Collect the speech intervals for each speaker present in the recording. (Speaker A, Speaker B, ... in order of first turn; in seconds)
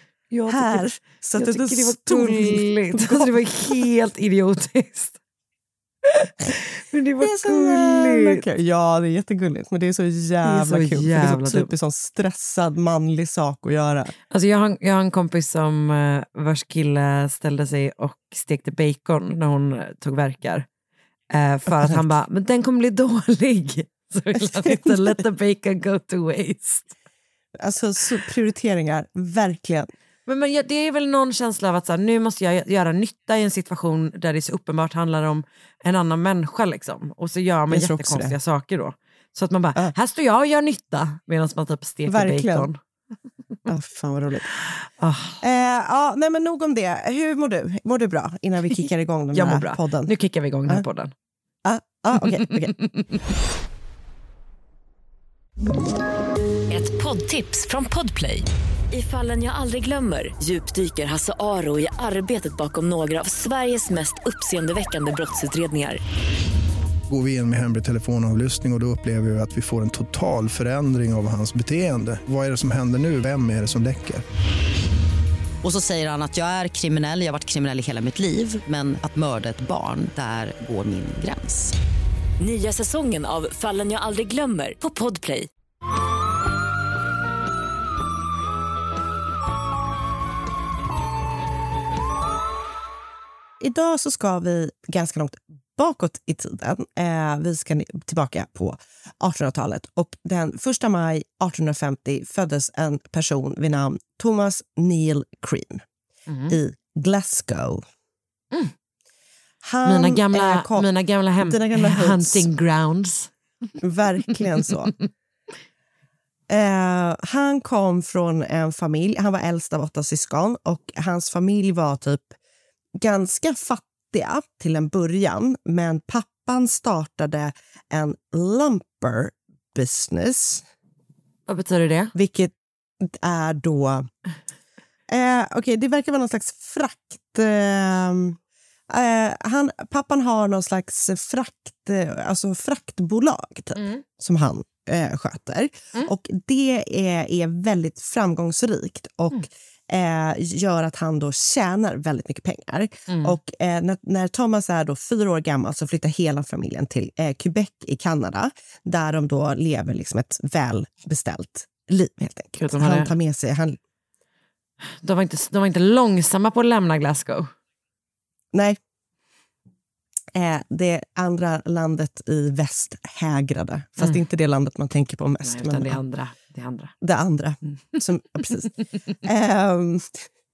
Speaker A: 0.3-5.2, 6.0-8.4, 10.4-11.7, 14.3-20.7, 21.3-26.9, 30.2-42.8, 44.6-45.4, 48.7-51.1, 52.2-53.2, 106.3-106.5, 109.8-113.3, 131.5-132.1, 153.1-153.3, 162.6-163.1, 164.8-167.5, 175.4-176.9
Speaker B: 0.5-3.8, 7.2-14.1, 21.8-22.1, 24.6-25.1, 27.6-29.9, 37.7-38.3, 42.1-42.7, 43.7-44.5, 45.4-50.1, 51.6-52.7, 93.6-105.8, 106.5-107.8, 109.6-110.9, 111.4-112.5, 113.8-114.9, 116.5-122.3, 123.0-130.6, 132.1-134.1, 135.1-138.4, 138.9-163.8, 168.5-168.8, 170.3-176.0, 177.0-178.7, 179.2-180.2
Speaker C: 56.7-66.0, 82.4-85.5
Speaker D: 67.1-74.2
Speaker E: 75.6-81.7